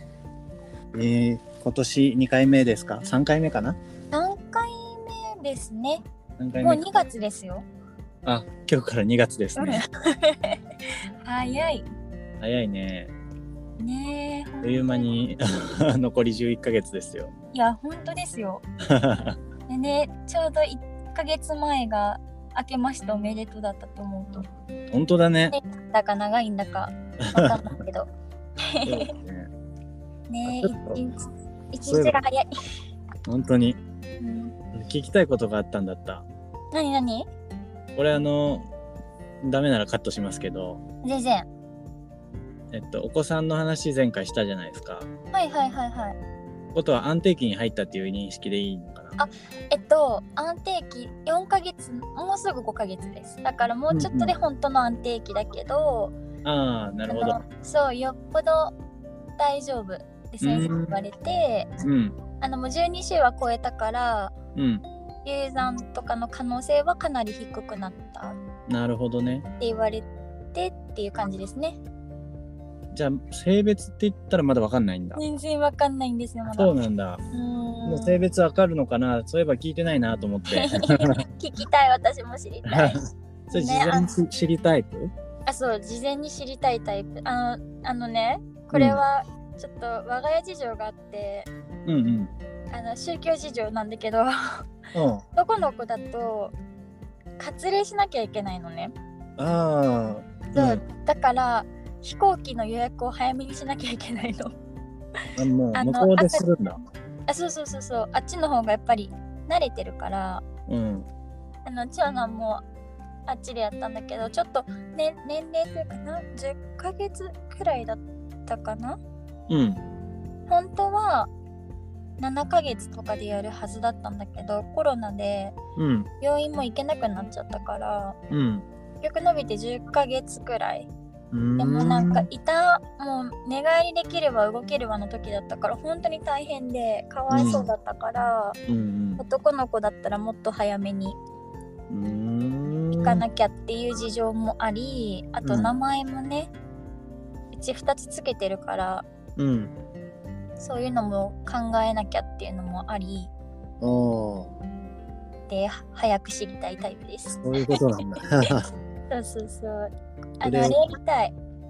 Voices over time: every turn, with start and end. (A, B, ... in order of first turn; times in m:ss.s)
0:00.9-0:03.8 A
0:04.1-0:06.0 B
0:06.4-0:06.8 A
0:06.6-0:07.6 B
0:08.2-0:09.8 A
0:09.6-0:11.9 B
0:12.4-0:13.1 A
0:13.8-0:15.1 B
0:14.6-0:17.3 A
0:17.5-0:18.6 B
0:18.9-0:19.4 A
0:19.7-0:24.5 B
0:24.9-0:25.6 A
0:25.5-0:28.1 B
0:27.2-0:27.6 A
0:28.7-0:29.1 B
0:28.8-0:29.5 A
0:30.3-0:32.5 B
0:30.4-0:31.0 A
0:31.9-0:32.2 A
0:33.3-0:33.8 A
0:34.2-0:34.5 B
0:34.7-0:36.3 A
0:36.7-0:37.3 B
0:38.0-0:38.7 A
0:39.4-0:40.8 A
0:41.0-0:41.5 B
0:42.7-0:45.1 A
0:45.3-0:46.2 B
0:46.7-0:49.2 A
0:49.2-0:56.2 B
0:53.9-0:54.3 A
0:56.4-0:57.4 A
0:57.1-0:58.7 B
0:59.4-1:01.7 B
1:00.4-1:01.0 A
1:01.8-1:02.2 A
1:02.4-1:04.3 B
1:04.6-1:04.9 A
1:05.2-1:08.4 B
1:08.7-1:09.5 A
1:09.6-1:11.8 B
1:12.9-1:15.2 A
1:15.2-1:16.7 B
1:16.5-1:17.2 A
1:17.3-1:18.2 B
1:17.9-1:21.2 A
1:20.5-1:23.0 B
1:22.7-1:25.1 A
1:23.5-1:24.1 B
1:25.5-1:31.5 B
1:28.7-1:29.0 A
1:31.9-1:32.3 A
1:32.7-1:34.6 B
1:34.9-1:35.2 A
1:35.4-1:36.5 B
1:37.4-1:38.9 B
1:39.4-1:40.8 A
1:40.6-1:44.5 B
1:45.4-1:46.8 A
1:45.7-1:46.8 B
1:47.3-1:50.4 B
1:50.7-1:51.1 A
1:51.6-1:52.6 B
1:53.3-1:59.0 B
1:59.5-1:59.8 A
2:00.5-2:01.3 B
2:02.2-2:05.6 B
2:05.8-2:06.1 A
2:06.2-2:08.2 B
2:08.3-2:08.6 A
2:09.0-2:10.9 B
2:11.3-2:12.3 A
2:11.6-2:18.6 B
2:17.3-2:17.7 A
2:18.7-2:19.2 A
2:19.2-2:21.2 B
2:21.9-2:23.2 A
2:22.9-2:26.5 B
2:25.4-2:25.7 A
2:27.5-2:29.0 B
2:29.4-2:29.7 A
2:30.6-2:33.3 B
2:33.8-2:34.5 A
2:35.5-2:37.8 B
2:37.4-2:38.7 A
2:39.1-2:41.3 B
2:40.4-2:40.9 A